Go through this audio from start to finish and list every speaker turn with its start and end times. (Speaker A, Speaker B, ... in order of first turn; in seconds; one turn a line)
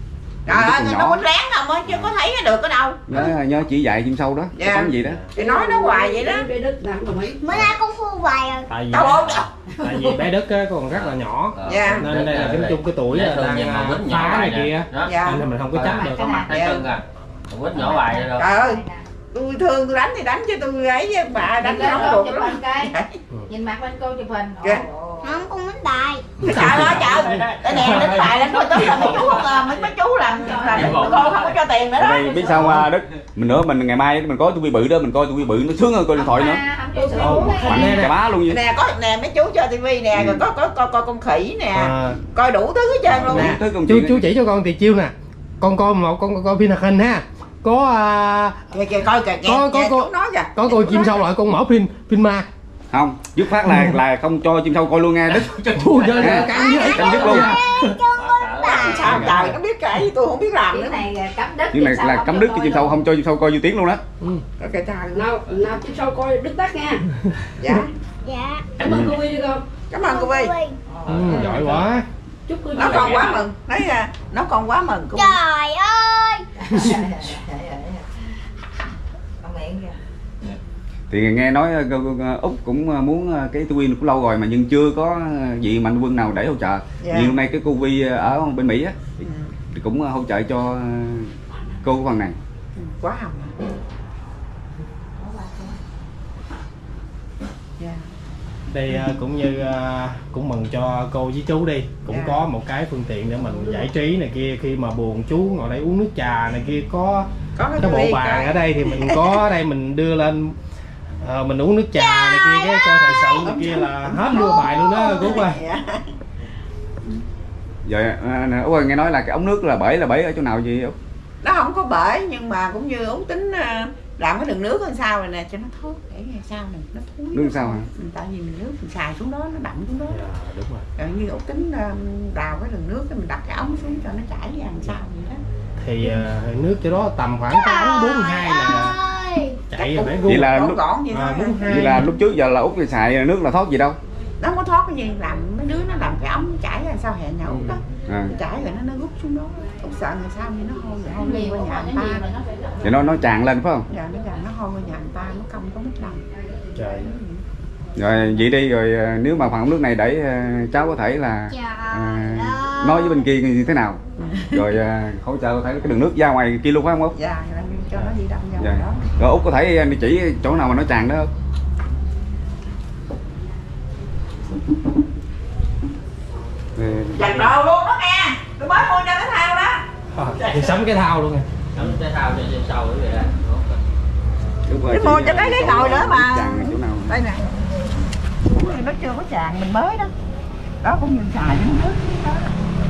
Speaker A: 0.5-3.3
Speaker B: 0.5-1.2
Speaker B: 3.1-5.2
Speaker A: 4.5-6.5
Speaker C: 5.0-5.3
Speaker D: 5.4-7.4
Speaker E: 7.4-8.7
Speaker C: 8.7-16.4
Speaker A: 8.9-9.5
Speaker F: 10.9-15.1
Speaker A: 11.6-12.1
Speaker A: 15.0-15.5
Speaker F: 15.7-18.5
Speaker G: 15.8-16.6
Speaker A: 16.5-16.9
Speaker G: 17.7-19.1
Speaker A: 18.4-23.1
Speaker G: 21.6-22.9
Speaker G: 23.5-25.4
Speaker E: 25.2-26.3
Speaker A: 26.4-32.4
Speaker F: 26.4-29.8
Speaker C: 26.6-27.0
Speaker C: 27.8-28.2
Speaker G: 29.1-29.5
Speaker G: 30.3-31.5
Speaker F: 30.6-31.5
Speaker B: 32.0-36.6
Speaker C: 32.5-32.9
Speaker G: 36.1-38.0
Speaker D: 37.0-37.8
Speaker C: 37.1-38.1
Speaker B: 37.6-38.6
Speaker A: 38.5-43.6
Speaker B: 40.1-40.4
Speaker C: 41.7-42.2
Speaker B: 43.1-44.3
Speaker C: 43.1-48.7
Speaker A: 48.7-51.3
Speaker C: 49.4-52.5
Speaker B: 52.9-55.5
Speaker C: 53.6-53.9
Speaker F: 55.3-57.5
Speaker C: 55.7-58.0
Speaker B: 56.2-57.5
Speaker E: 56.5-59.2
Speaker F: 58.1-59.2
Speaker A: 58.6-61.0
Speaker B: 58.8-59.5
Speaker G: 60.7-63.0
Speaker B: 61.7-64.0
Speaker A: 64.6-65.3
Speaker D: 65.1-67.0
Speaker C: 67.3-67.8
Speaker A: 67.6-67.9
Speaker E: 68.2-68.6
Speaker D: 68.8-69.6
Speaker B: 68.8-69.2
Speaker A: 69.9-70.5
Speaker E: 70.0-70.8
Speaker C: 71.0-72.0
Speaker F: 71.1-71.8
Speaker A: 71.1-71.8
Speaker D: 72.5-73.3
Speaker A: 72.7-75.4
Speaker F: 72.8-73.4
Speaker E: 75.1-76.4
Speaker G: 76.7-78.0
Speaker G: 79.4-79.9
Speaker B: 81.1-92.3
Speaker A: 87.0-87.3
Speaker A: 89.2-89.5
Speaker A: 92.7-93.5
Speaker A: 95.2-95.8
Speaker A: 97.8-98.0
Speaker C: 98.7-110.5
Speaker A: 102.1-102.5
Speaker A: 103.5-103.8
Speaker A: 107.5-109.4
Speaker C: 111.2-115.6
Speaker E: 112.0-113.3
Speaker A: 113.3-116.0
Speaker B: 117.8-121.0
Speaker A: 121.4-130.2
Speaker B: 127.3-127.9
Speaker C: 130.1-130.9
Speaker A: 130.9-135.4
Speaker C: 135.8-139.0
Speaker E: 137.5-139.6
Speaker C: 139.7-140.5
Speaker A: 139.7-141.6
Speaker B: 140.2-140.8
Speaker C: 141.0-142.1
Speaker B: 141.7-144.0
Speaker A: 144.4-152.2
Speaker B: 147.5-148.3
Speaker G: 151.2-152.8
Speaker B: 152.8-153.9
Speaker A: 153.9-156.2
Speaker C: 156.8-157.1
Speaker A: 157.0-157.4
Speaker B: 157.9-164.0
Speaker E: 161.5-163.2
Speaker A: 164.2-164.6
Speaker B: 164.5-167.1
Speaker A: 167.1-169.0
Speaker B: 168.6-171.3
Speaker B: 176.8-177.5
Speaker A: 177.1-179.8
Speaker C: 180.1-181.5
Speaker F: 181.7-183.8
Speaker B: 184.7-187.1
Speaker A: 184.8-187.4
Speaker A: 188.5-190.1
Speaker A: 190.8-192.5